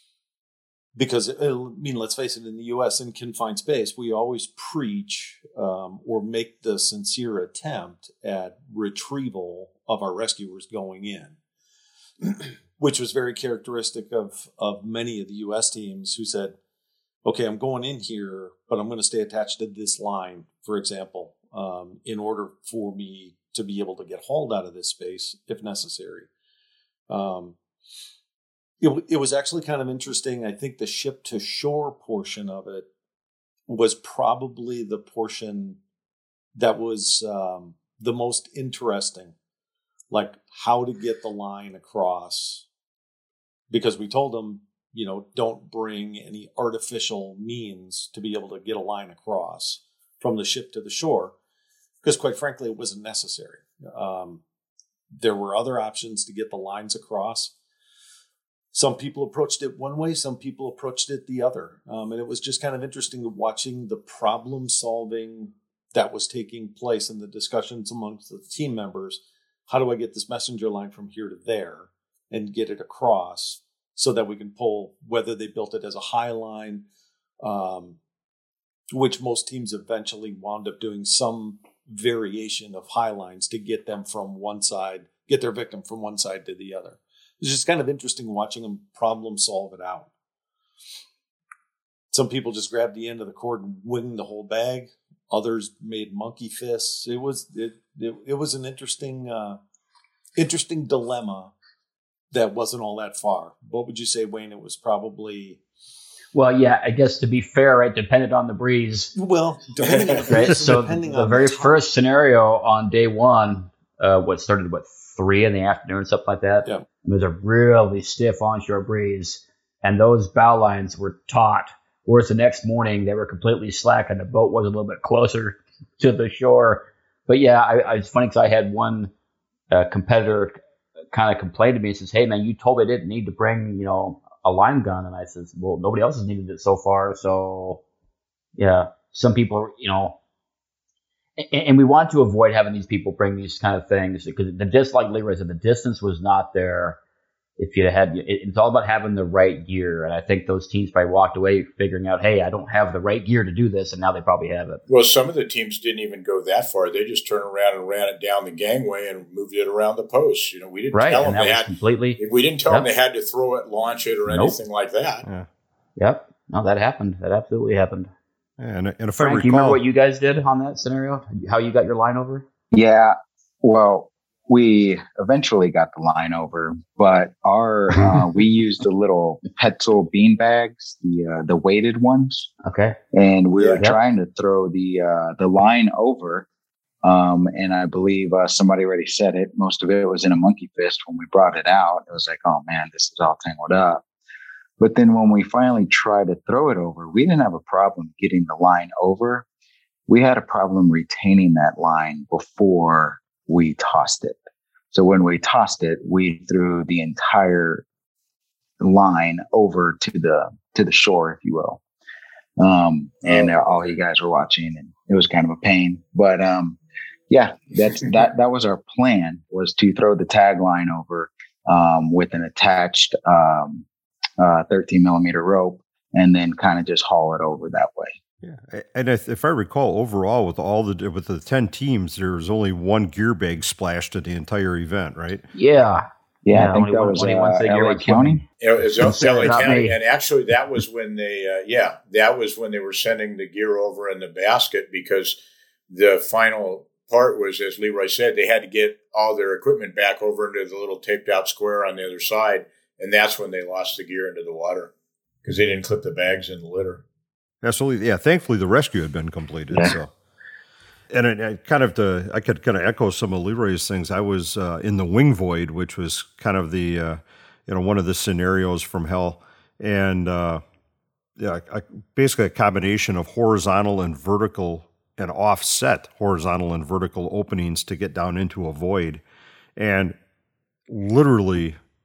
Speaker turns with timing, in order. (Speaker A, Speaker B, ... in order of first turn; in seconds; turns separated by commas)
Speaker A: 0.9-11.4, Speaker A: 12.2-16.6, Speaker A: 17.2-26.3, Speaker A: 27.1-27.6, Speaker A: 28.8-32.9, Speaker A: 33.7-35.8, Speaker A: 36.5-39.3, Speaker A: 40.1-42.7, Speaker A: 43.7-51.4, Speaker A: 52.0-54.4, Speaker A: 55.1-57.5, Speaker A: 58.7-76.8, Speaker A: 77.4-78.0, Speaker A: 78.9-90.1, Speaker A: 92.1-99.6, Speaker A: 100.3-101.5, Speaker A: 102.3-105.6, Speaker B: 106.3-109.1, Speaker A: 109.1-111.8, Speaker B: 110.2-129.1, Speaker B: 129.7-130.6, Speaker B: 131.1-137.8, Speaker B: 138.6-140.2, Speaker B: 141.4-147.0, Speaker B: 147.6-154.8, Speaker C: 154.9-165.2, Speaker B: 160.9-162.9, Speaker B: 164.3-164.6, Speaker B: 166.0-168.1, Speaker D: 168.6-169.8, Speaker B: 169.2-172.4, Speaker E: 172.7-182.5, Speaker B: 182.6-183.0, Speaker E: 183.1-186.4, Speaker C: 183.6-183.8, Speaker E: 187.0-194.0, Speaker E: 194.8-199.4, Speaker E: 200.1-204.4, Speaker E: 204.9-207.8, Speaker E: 208.8-211.8, Speaker E: 212.6-216.8, Speaker C: 213.2-213.9, Speaker E: 217.3-223.8, Speaker E: 224.4-228.2, Speaker D: 228.4-235.4, Speaker B: 235.5-238.4, Speaker E: 236.4-238.4, Speaker C: 238.6-245.4, Speaker B: 239.0-240.0, Speaker C: 245.9-254.9, Speaker C: 255.4-257.0, Speaker D: 257.6-260.1, Speaker B: 259.7-260.0, Speaker D: 261.1-270.6, Speaker D: 271.4-279.2, Speaker D: 279.8-280.1, Speaker D: 280.9-281.8